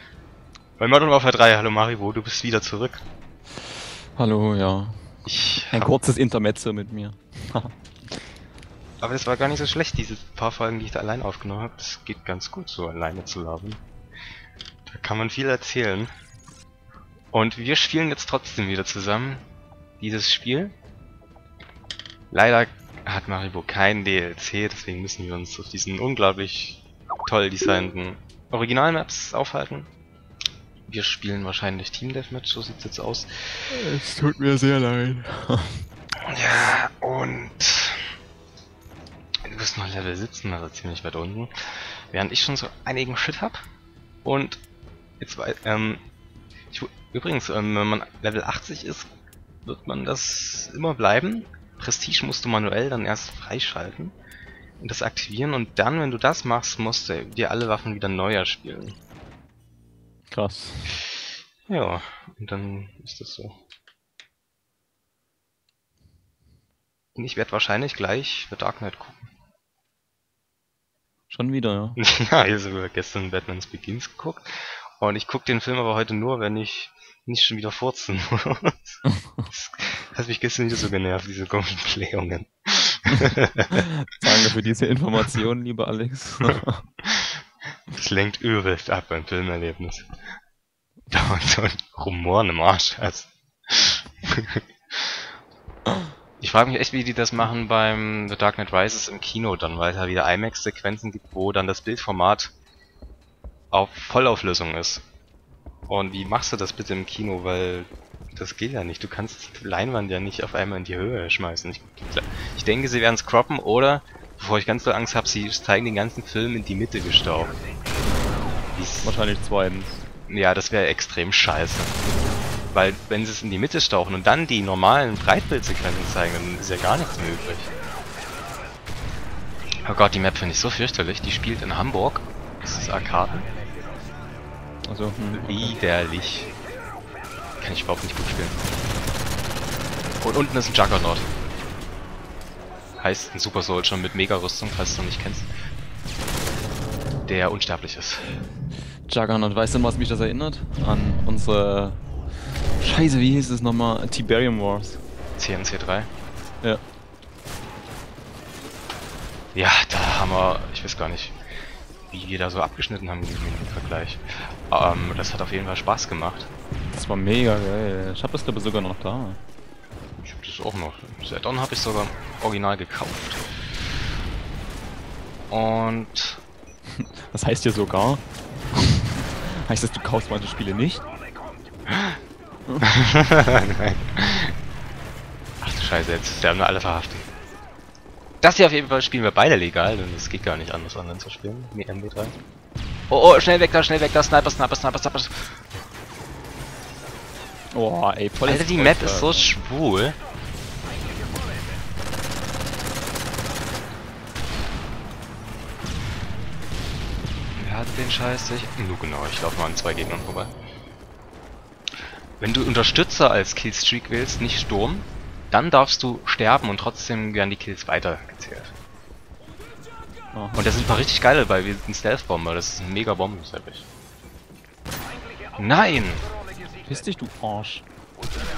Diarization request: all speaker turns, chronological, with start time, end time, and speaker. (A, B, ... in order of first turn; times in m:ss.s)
0:00.8-0:03.0 A
0:04.2-0:05.0 B
0:05.2-0:05.9 A
0:05.7-0:07.7 B
0:09.0-0:13.8 A
0:14.9-0:16.1 A
0:17.3-0:19.4 A
0:20.0-0:20.7 A
0:22.3-0:29.9 A
0:30.9-0:33.7 A
0:33.7-0:35.8 B
0:36.3-0:38.1 A
0:39.4-0:43.6 A
0:44.2-0:44.6 A
0:45.2-0:46.0 A
0:46.7-0:49.1 A
0:49.6-0:54.2 A
0:54.8-0:59.0 A
1:00.3-1:01.0 B
1:01.7-1:03.6 A
1:07.2-1:09.3 A
1:11.3-1:12.0 B
1:12.0-1:23.8 A
1:23.8-1:26.8 B
1:27.1-1:27.3 A
1:27.9-1:30.1 A
1:31.1-1:35.2 A
1:36.4-1:42.5 A
1:43.7-1:45.0 A
1:45.9-1:57.6 A
1:58.8-1:59.2 A
1:59.0-2:00.0 B
2:00.3-2:02.0 A
2:02.7-2:07.7 A
2:09.8-2:13.5 A
2:14.8-2:15.8 B
2:15.3-2:16.5 A
2:17.6-2:18.6 A
2:20.2-2:21.3 A
2:23.0-2:25.5 A
2:27.2-2:28.4 A
2:29.1-2:32.0 B
2:32.8-2:35.0 B
2:35.4-2:36.1 A
2:39.6-2:41.4 A
2:42.1-2:46.5 A
2:46.9-2:49.4 B
2:50.2-2:53.4 A
2:55.5-2:56.4 A
2:57.0-3:01.1 B
3:02.8-3:04.5 A
3:05.6-3:07.3 A
3:08.4-3:12.3 A
3:13.1-3:15.5 A
3:17.7-3:19.5 B
3:18.4-3:20.2 A
3:27.6-3:30.6 A
3:32.4-3:38.7 A
3:40.3-3:40.7 B
3:40.6-3:43.9 A
3:45.6-3:46.3 A
3:46.8-3:47.8 B